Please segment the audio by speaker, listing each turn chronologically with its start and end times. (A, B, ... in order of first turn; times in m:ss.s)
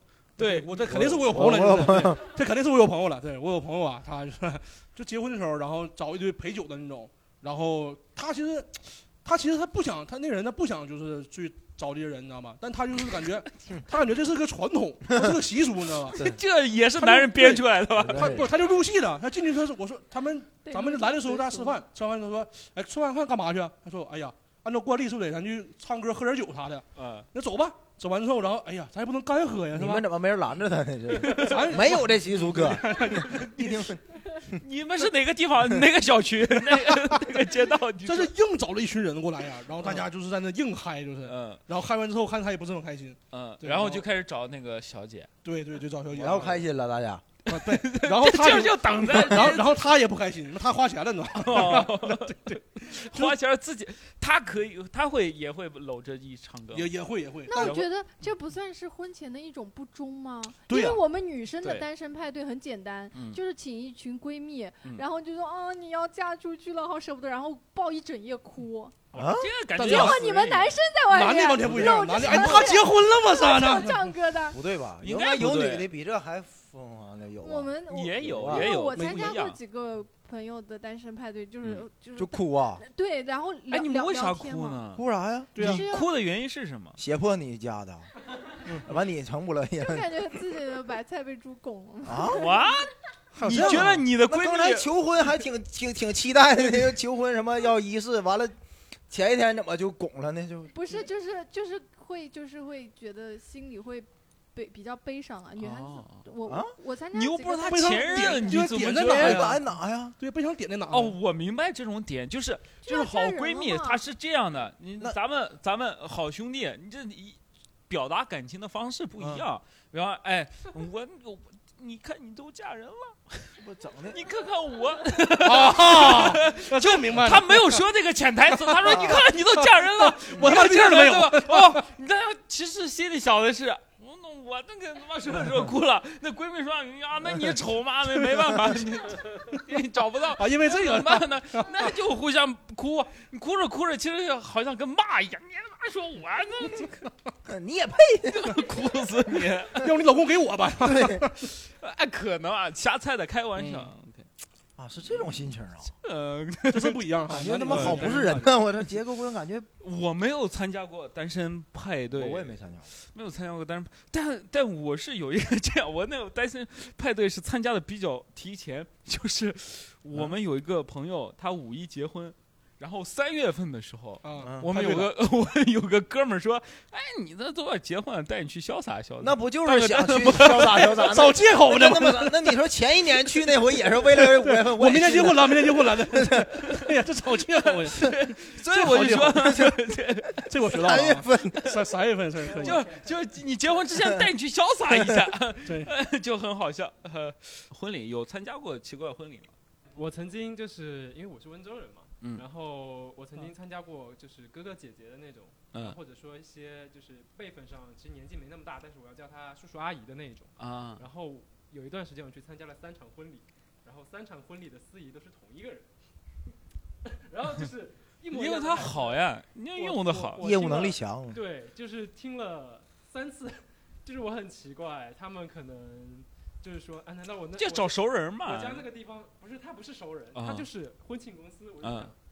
0:00.4-0:01.2 A
0:00.4-0:16.2 B
0:00.9-0:02.2 C
0:16.1-0:18.5 A
0:17.0-0:30.0 B
0:18.0-0:18.5 C
0:20.6-0:21.8 D
0:27.0-0:27.3 A
0:29.7-0:34.6 C
0:31.2-0:31.9 A
0:31.3-0:33.5 B
0:33.2-0:33.8 A
0:34.5-0:38.3 A
0:36.7-0:37.2 B
0:38.0-0:44.0 B
0:41.2-0:41.6 A
0:43.3-0:45.3 A
0:45.4-0:46.6 B
0:46.1-0:47.2 C
0:47.5-0:49.8 A
0:47.5-0:53.4 B
0:51.3-0:56.9 A
0:56.7-0:57.8 B
0:57.5-1:08.9 D
0:57.5-0:57.9 A
1:00.7-1:01.0 B
1:09.1-1:09.5 C
1:09.1-1:10.8 A
1:09.8-1:10.3 B
1:09.8-1:14.6 D
1:11.0-1:14.1 B
1:12.2-1:12.7 A
1:14.5-1:18.6 C
1:15.0-1:15.9 A
1:17.4-1:24.8 D
1:17.9-1:19.6 A
1:18.9-1:19.4 B
1:22.2-1:22.8 C
1:23.7-1:25.0 A
1:24.9-1:25.6 C
1:25.5-1:25.8 B
1:25.6-1:27.0 A
1:25.6-1:26.1 D
1:27.0-1:28.1 C
1:28.8-1:30.3 C
1:29.8-1:32.4 D
1:32.0-1:32.5 C
1:32.3-1:34.9 A
1:33.3-1:34.0 B
1:33.4-1:38.5 C
1:39.1-1:40.7 C
1:40.7-1:48.5 D
1:45.6-1:46.2 A
1:46.4-1:46.7 C
1:47.1-1:49.6 A
1:47.6-1:49.6 B
1:49.0-1:50.2 C
1:50.2-1:51.2 B
1:50.9-1:57.4 A
1:52.8-1:54.0 D
1:57.9-2:03.5 A
2:03.6-2:04.2 C
2:04.1-2:27.1 A
2:05.4-2:07.8 B
2:08.5-2:11.8 B
2:08.9-2:09.2 C
2:20.4-2:21.9 B
2:27.4-2:28.6 C
2:28.3-2:29.9 A
2:29.8-2:31.5 B
2:30.8-2:31.2 C
2:31.4-2:34.3 A
2:33.6-2:33.9 B
2:34.8-2:35.9 C
2:36.0-2:37.0 A
2:36.7-2:38.6 B
2:37.3-2:39.7 C
2:37.6-2:38.2 A
2:39.8-3:01.0 A
2:42.1-2:42.9 C
2:54.2-2:55.1 B
2:54.4-2:54.7 C
2:59.2-3:06.5 C
3:00.7-3:02.5 B
3:04.1-3:08.1 B
3:07.5-3:10.5 A
3:08.7-3:09.4 B
3:09.3-3:09.8 C
3:10.5-3:12.8 B
3:10.7-3:11.7 C
3:12.4-3:19.5 A
3:15.6-3:15.9 B
3:19.9-3:35.9 E
3:25.7-3:26.0 A
3:30.6-3:31.0 A
3:37.0-3:39.2 E
3:38.3-3:40.5 A
3:39.7-3:52.2 E
3:40.4-3:41.4 C
3:47.6-3:48.9 A
3:50.3-3:50.7 A
3:51.8-3:52.1 A